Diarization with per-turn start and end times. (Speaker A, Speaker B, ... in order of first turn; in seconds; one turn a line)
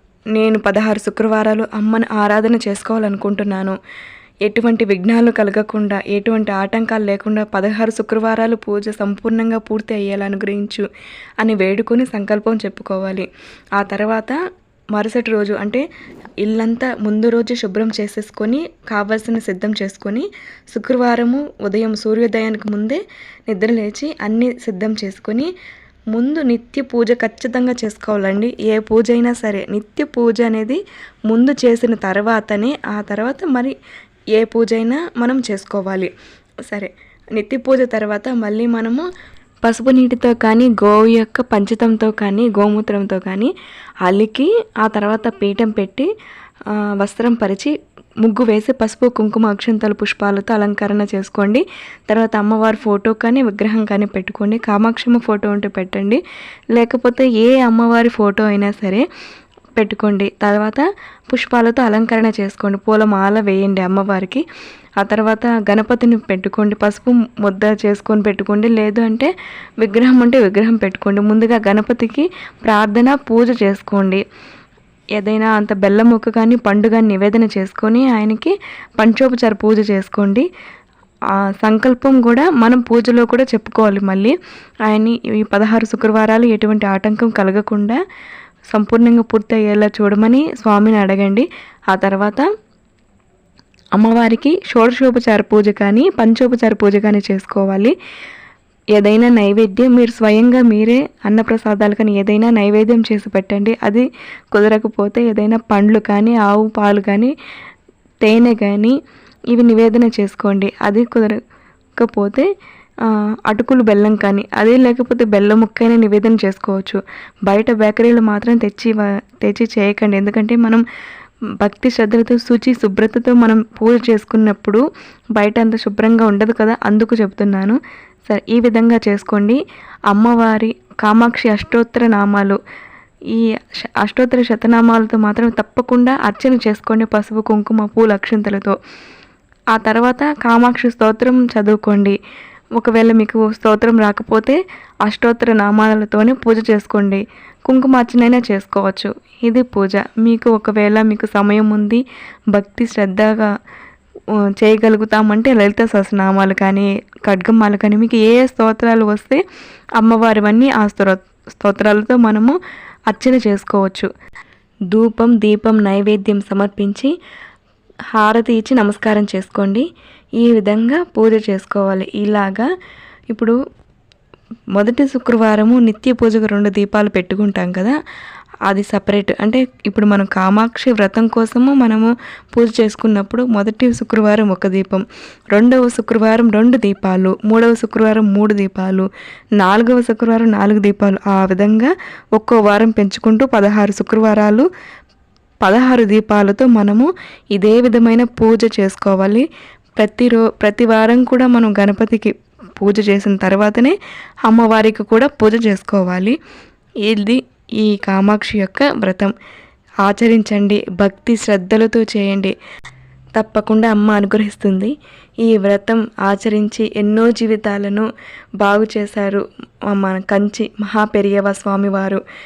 Speaker A: 0.3-3.8
Speaker A: 4.5-10.8
Speaker A: 11.4-14.4
Speaker A: 14.9-15.8
Speaker A: 16.4-25.5
Speaker A: 26.1-33.7
Speaker A: 34.3-36.1
Speaker A: 36.7-39.1
Speaker A: 39.6-43.5
Speaker A: 44.0-46.1
Speaker A: 47.0-47.7
Speaker A: 48.2-56.2
Speaker A: 56.7-59.0
Speaker A: 59.8-64.4
Speaker A: 65.0-74.2
Speaker A: 75.2-80.5
Speaker A: 81.6-84.3
Speaker A: 84.9-88.0
Speaker A: 88.7-92.5
Speaker A: 93.9-97.9
Speaker A: 99.0-107.3
Speaker A: 108.2-109.0
Speaker A: 109.5-111.4
Speaker A: 112.0-112.5
Speaker A: 113.0-120.8
Speaker A: 121.6-124.8
Speaker A: 125.3-129.6
Speaker A: 130.1-132.6
Speaker A: 134.0-138.7
Speaker A: 139.7-142.2
Speaker A: 142.8-152.0
Speaker A: 152.5-153.5
Speaker A: 154.6-159.4
Speaker A: 160.0-162.6
Speaker A: 163.1-164.1
Speaker A: 164.9-167.1
Speaker A: 168.1-169.9
Speaker A: 170.4-172.7
Speaker A: 174.8-177.9
Speaker A: 178.7-189.1
Speaker A: 189.6-194.7
Speaker A: 195.6-199.4
Speaker A: 200.0-203.9
Speaker A: 204.5-206.3
Speaker A: 207.0-209.3
Speaker A: 210.0-212.5
Speaker A: 213.4-214.9
Speaker A: 215.4-218.1
Speaker A: 218.6-222.2